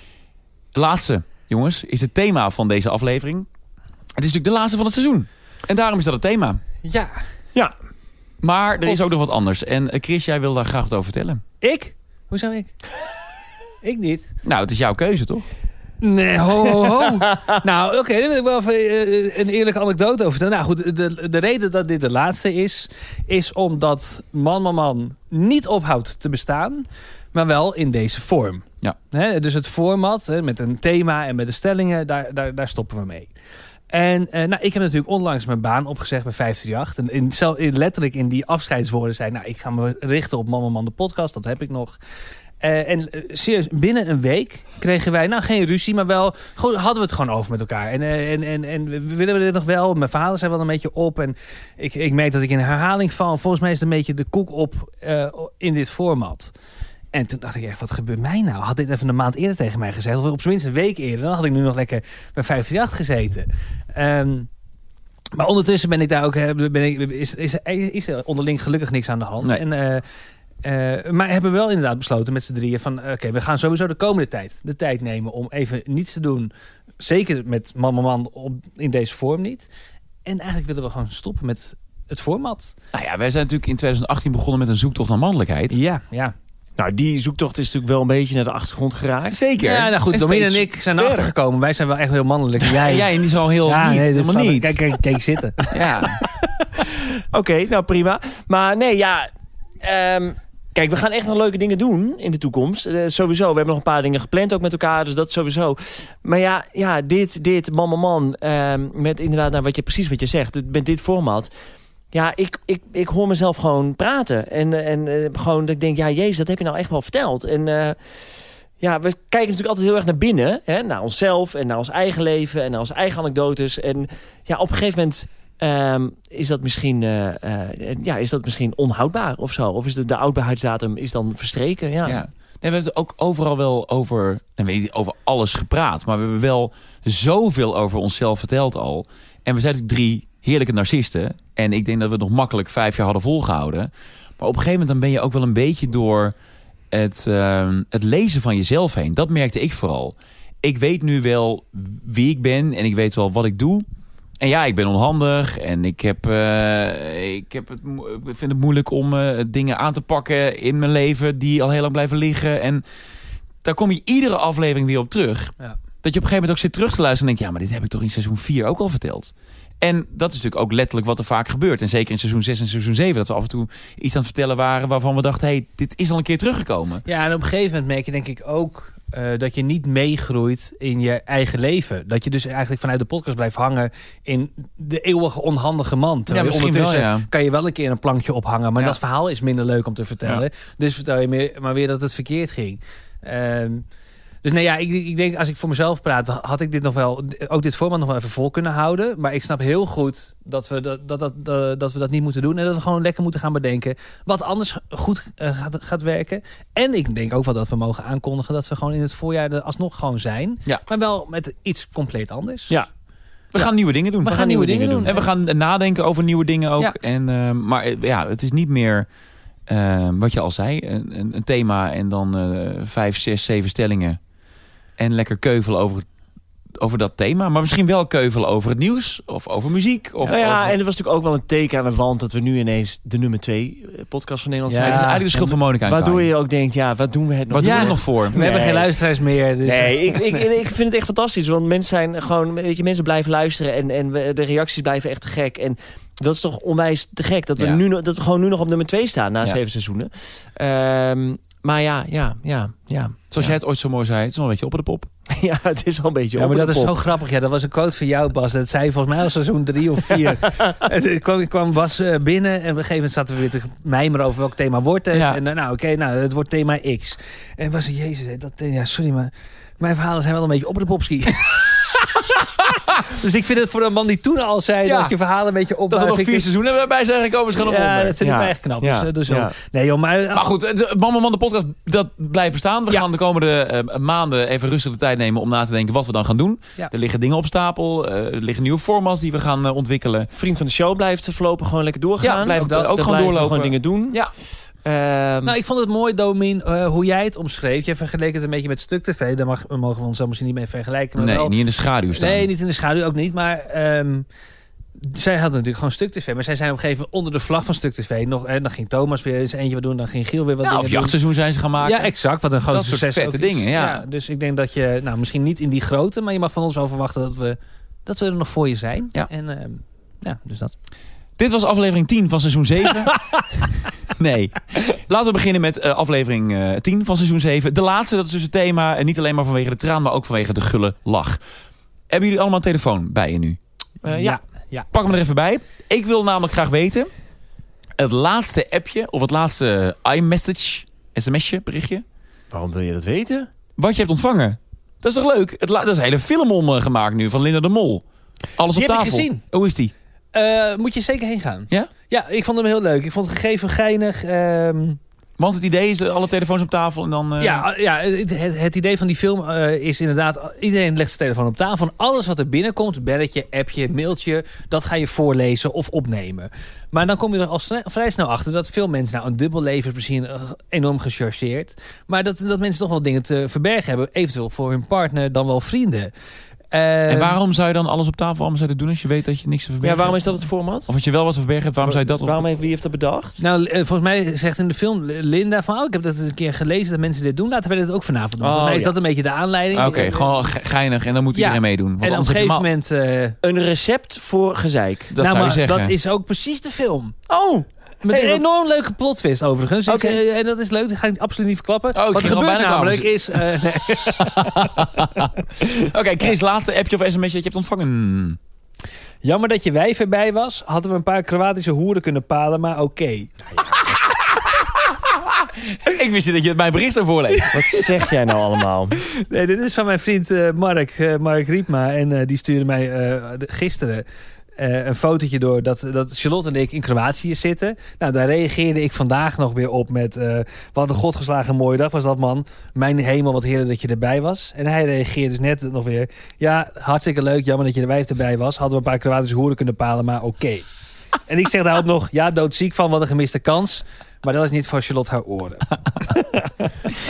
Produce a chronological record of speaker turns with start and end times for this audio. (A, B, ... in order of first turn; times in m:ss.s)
0:00.7-0:03.5 A
0:04.2-0:06.6 A
0:06.8-0:07.1 B
0:08.4-0:11.4 A
0:11.6-0:12.7 B
0:13.8-0:14.3 B
0:14.4-0:15.4 A
0:16.0-0:33.3 B
0:16.9-0:17.6 C
0:33.9-0:42.0 B
0:42.6-0:56.5 B
0:57.1-1:04.5 B
1:05.3-1:10.0 B
1:10.6-1:19.7 B
1:20.2-1:22.7 B
1:22.9-1:25.8 A
1:25.7-1:26.3 B
1:26.8-1:29.4 C
1:29.3-1:31.3 A
1:29.6-1:36.4 B
1:32.6-1:34.8 A
1:35.7-1:36.2 A
1:36.8-1:39.3 C
1:39.8-1:51.5 C
1:52.1-1:58.0 C
1:58.8-2:12.2 C
2:12.0-2:26.3 A
2:26.9-2:33.8 A
2:34.4-2:42.8 A
2:43.6-2:57.0 A
2:57.1-3:13.8 B
3:06.3-3:07.3 A
3:14.4-3:32.8 B
3:33.5-3:39.1 A
3:34.2-3:35.2 B
3:34.2-3:35.2 C
3:39.7-3:44.2 A
3:45.0-3:46.1 A
3:46.8-3:50.7 A
3:50.2-3:58.9 C
3:54.7-3:55.5 B
3:54.8-3:56.3 A
3:57.5-3:58.4 A
3:57.6-4:00.5 B
3:59.6-4:13.5 C
4:13.3-4:15.1 A
4:15.3-4:17.0 C
4:16.4-4:31.9 B
4:25.1-4:25.4 A
4:33.0-4:36.5 B
4:34.8-4:35.1 A
4:35.9-4:38.2 A
4:37.6-4:40.5 B
4:38.2-4:39.5 C
4:40.3-4:50.3 A
4:50.3-4:54.2 C
4:52.2-4:54.3 A
4:52.5-4:53.5 B
4:54.8-4:55.6 C
4:55.4-5:01.5 B
5:01.2-5:02.5 A
5:02.1-5:04.2 B
5:05.0-5:11.2 B
5:10.6-5:12.1 A
5:11.8-5:20.7 B
5:12.7-5:14.0 A
5:21.4-5:23.2 A
5:24.1-5:31.4 A
5:32.1-5:33.6 A
5:34.0-5:34.4 C
5:34.0-5:34.9 B
5:34.9-5:37.1 A
5:38.0-5:42.0 A
5:42.5-5:43.5 C
5:43.8-5:48.0 A
5:48.6-5:49.9 A
5:48.7-5:49.4 B
5:50.3-5:55.0 B
5:55.4-5:57.6 A
5:57.4-6:16.1 B
6:16.7-6:17.4 B
6:17.1-6:22.4 A
6:19.8-6:20.9 C
6:21.8-6:23.4 C
6:23.4-6:30.3 B
6:28.4-6:28.9 C
6:29.7-6:32.6 A
6:31.3-6:33.4 B
6:33.4-6:35.1 C
6:35.1-6:35.9 A
6:35.2-6:37.2 B
6:37.3-6:38.4 C
6:38.0-6:44.9 B
6:39.9-6:40.2 A
6:41.9-6:43.4 A
6:44.0-6:48.4 A
6:49.2-6:53.9 B
6:55.3-6:57.5 A
6:57.5-6:59.0 C
6:59.0-7:04.0 B
7:04.6-7:20.6 B
7:21.3-7:26.4 B